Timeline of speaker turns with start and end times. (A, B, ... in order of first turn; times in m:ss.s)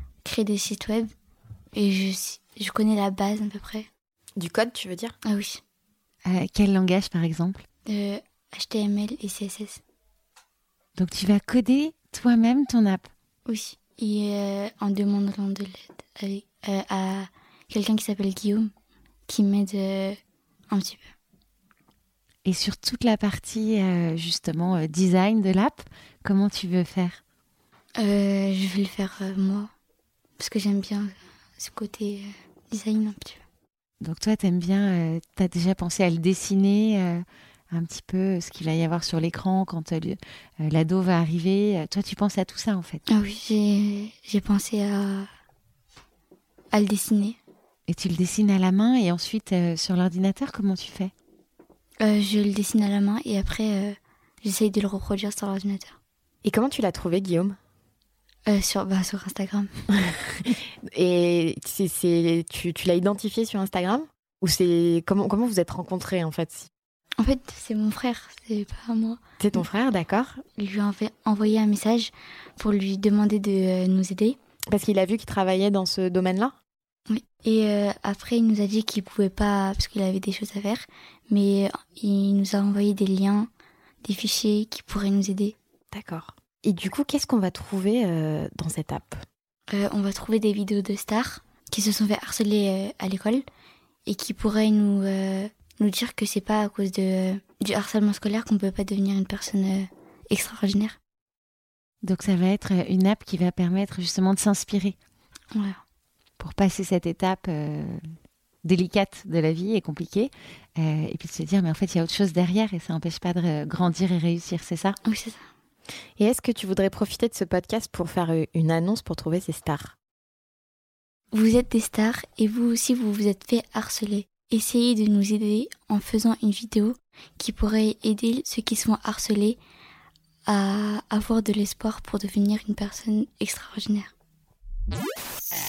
0:00.2-0:01.1 A
0:01.7-0:03.9 A
0:04.4-0:05.1 B
0:05.2-0:05.6 A
0:06.2-0:07.6 C
0:07.8-0:09.8 A
0:11.0-0:13.1 C
0:13.4-0:18.7 A
0:19.3-0:20.2 A
0:20.7-0:21.1 A
0:22.4-0:27.2 C
0:28.0-0:29.7 A
0:30.4-0:33.4 A
0:34.0-0:43.0 C
0:43.1-0:45.3 A
0:46.7-0:47.4 A
0:47.9-0:51.1 C
0:52.0-0:55.9 A
0:56.4-0:57.6 B
0:58.4-0:59.7 A
1:00.9-1:06.7 B
1:07.2-1:09.2 A
1:09.4-1:10.4 B
1:10.6-1:14.4 A
1:14.7-1:16.5 B
1:17.1-1:23.5 A
1:24.0-1:25.6 A
1:25.9-1:29.2 B
1:29.7-1:33.4 A
1:34.0-1:41.0 A
1:42.0-1:45.0 C
1:45.5-1:45.8 A
1:46.4-1:48.0 C
1:48.6-1:55.0 C
1:55.0-1:55.4 A
1:56.2-1:59.9 B
2:01.3-2:09.6 A
2:10.4-2:14.1 A